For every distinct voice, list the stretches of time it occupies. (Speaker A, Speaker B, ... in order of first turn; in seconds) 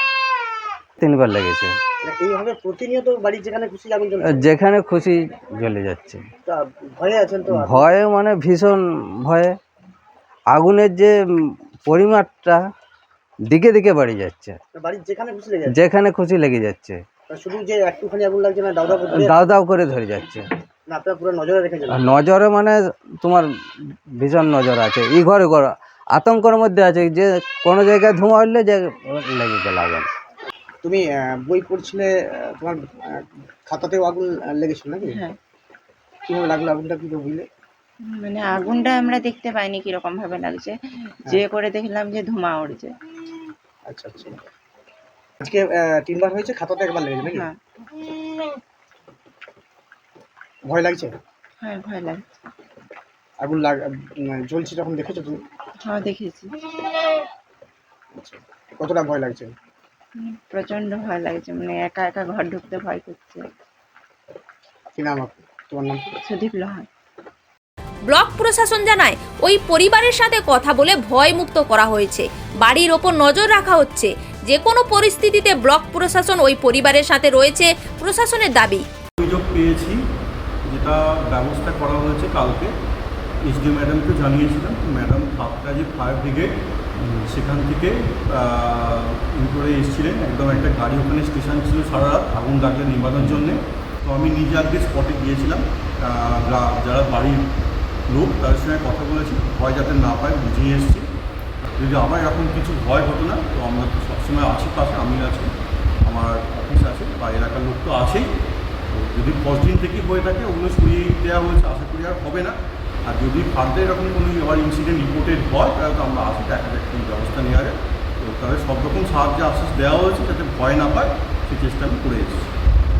Speaker A: 1.0-1.7, 4.4-6.2, 7.7-9.6, 10.5-11.1, 11.9-12.6, 13.5-14.6, 15.8-17.0, 19.2-20.4, 22.0-23.5, 24.2-30.1
Speaker B: 2.0-4.6, 6.5-8.0, 14.7-16.0, 17.3-19.7, 20.9-22.2, 30.8-35.2, 36.3-37.5, 43.9-44.4, 45.4-47.5, 50.7-51.1, 53.4-55.4, 58.2-59.5, 65.0-66.0
Speaker C: 38.1-40.8, 41.3-42.9, 47.3-47.6, 51.6-52.2, 55.9-56.5, 60.2-63.5, 66.2-66.9
Speaker D: 68.1-78.8
Speaker E: 79.2-80.0, 80.7-82.7, 83.4-86.6, 87.2-97.5, 98.1-101.1, 101.8-105.5, 106.0-108.3, 108.9-112.5, 113.0-122.5